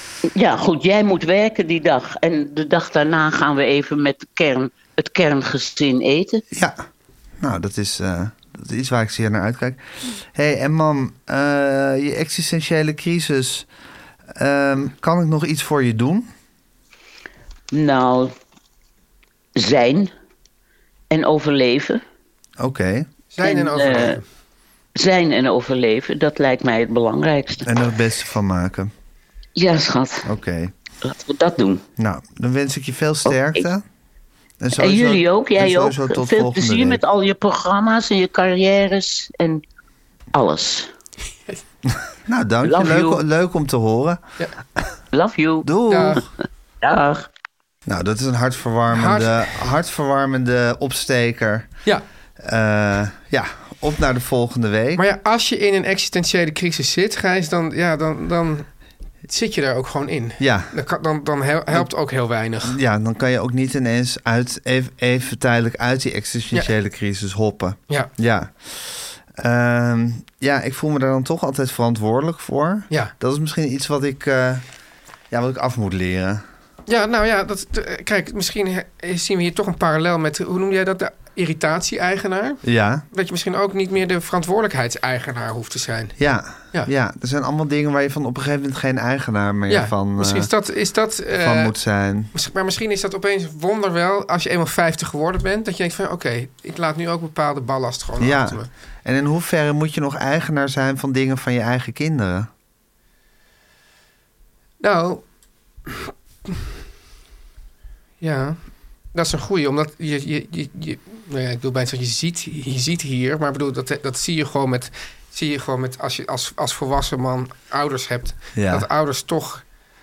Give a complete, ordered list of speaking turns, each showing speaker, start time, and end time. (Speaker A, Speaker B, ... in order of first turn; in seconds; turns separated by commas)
Speaker A: 0.3-6.4, Speaker B: 6.5-6.8, Speaker B: 7.4-13.7, Speaker B: 14.3-16.3, Speaker A: 17.7-18.3, Speaker A: 19.6-20.1, Speaker A: 21.1-22.0, Speaker B: 22.6-23.1, Speaker C: 23.3-24.2, Speaker A: 23.4-24.2, Speaker A: 24.9-27.7, Speaker B: 27.6-28.9, Speaker A: 29.6-30.3, Speaker B: 30.2-30.7, Speaker A: 31.0-31.8, Speaker B: 32.0-33.8, Speaker A: 33.2-33.7, Speaker B: 34.6-37.0, Speaker A: 34.8-39.6, Speaker A: 40.3-40.9, Speaker B: 41.9-44.2, Speaker A: 42.6-43.2, Speaker A: 45.1-45.7, Speaker B: 45.6-46.2, Speaker C: 45.9-46.2, Speaker A: 46.8-47.3, Speaker B: 47.9-51.7, Speaker C: 48.9-49.5, Speaker B: 52.4-55.0, Speaker C: 55.0-58.7, Speaker C: 59.3-62.8, Speaker B: 60.4-60.7, Speaker B: 62.6-74.6, Speaker B: 75.3-76.4, Speaker C: 76.9-86.2, Speaker B: 82.6-83.0, Speaker B: 86.2-90.5, Speaker C: 89.7-91.7, Speaker B: 91.3-92.3, Speaker C: 92.3-98.7, Speaker B: 98.2-102.5, Speaker C: 104.8-105.2, Speaker C: 105.9-106.6, Speaker C: 108.2-119.7, Speaker B: 118.5-118.8